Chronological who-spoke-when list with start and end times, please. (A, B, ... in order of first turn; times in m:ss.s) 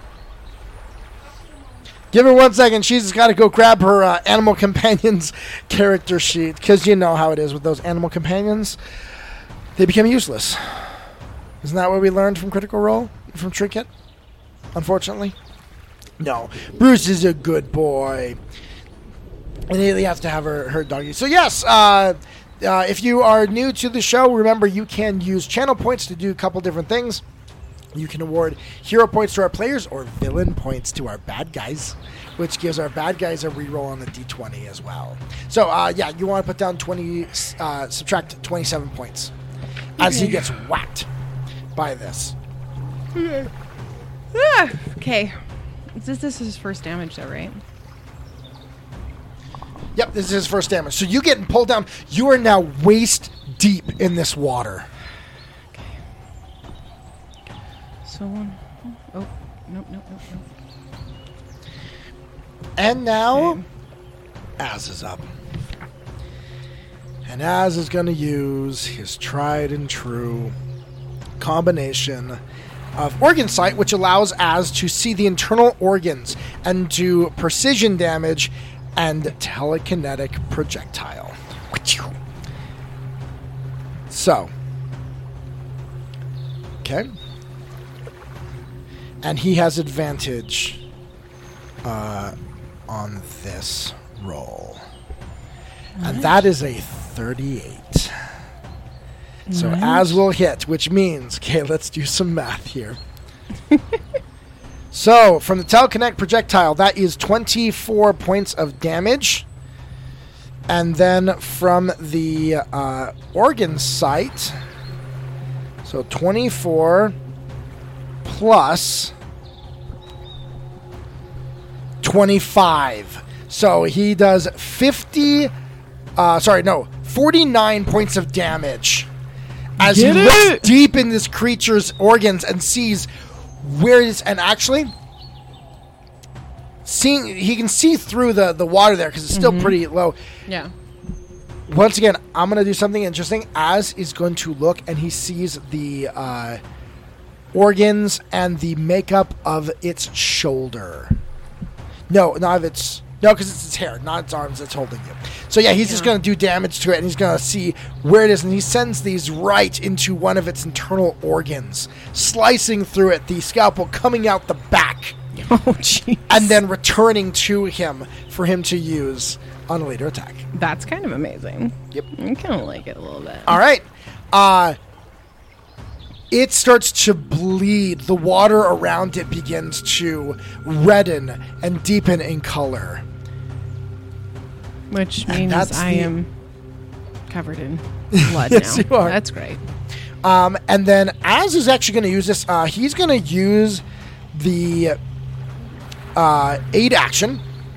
0:02.1-0:08.8 A
0:09.8-0:10.9 A
0:11.6-0:13.9 A
0:14.7-0:15.4 A
0:16.2-0:18.4 A
0:19.7-0:27.2 A
0:27.9-0:39.3 A
0:40.0-0:40.5 B
0:40.0-0:41.1 A
0:41.7-0:42.3 A
0:43.2-0:43.5 B
0:44.3-0:45.3 B
0:46.0-0:47.6 B
0:49.9-0:54.9 A
0:58.0-1:00.4 B
1:02.8-1:03.6 A
1:03.3-1:03.6 B
1:04.6-1:05.3 A
1:07.2-1:10.5 A
1:11.4-1:12.4 A
1:13.0-1:22.1 A
1:24.1-1:24.5 A
1:29.2-1:30.8 A
1:31.8-1:32.3 A
1:32.9-1:34.8 A
1:36.0-1:36.3 B
1:36.0-1:38.1 A
1:39.5-1:40.2 B
1:39.5-1:43.0 A
1:44.9-1:49.4 A
1:50.7-1:54.5 A
1:55.8-1:57.1 A
1:58.2-1:59.1 A
2:02.0-2:05.5 A
2:06.2-2:09.1 A
2:09.8-2:10.7 B
2:09.8-2:13.1 A
2:13.6-2:14.9 A
2:16.8-2:20.2 A
2:19.3-2:19.8 B
2:20.5-2:20.7 B
2:21.7-2:26.6 A
2:27.5-2:31.2 A
2:32.1-2:45.2 A
2:35.8-2:36.1 B
2:45.4-2:46.6 B
2:46.3-2:50.4 A
2:50.5-2:53.6 B
2:53.4-2:54.8 A
2:56.3-3:03.0 A
3:04.9-3:06.3 B
3:05.2-3:06.1 A
3:07.3-3:09.6 B
3:08.1-3:09.2 A
3:10.2-3:15.0 A
3:16.1-3:17.4 A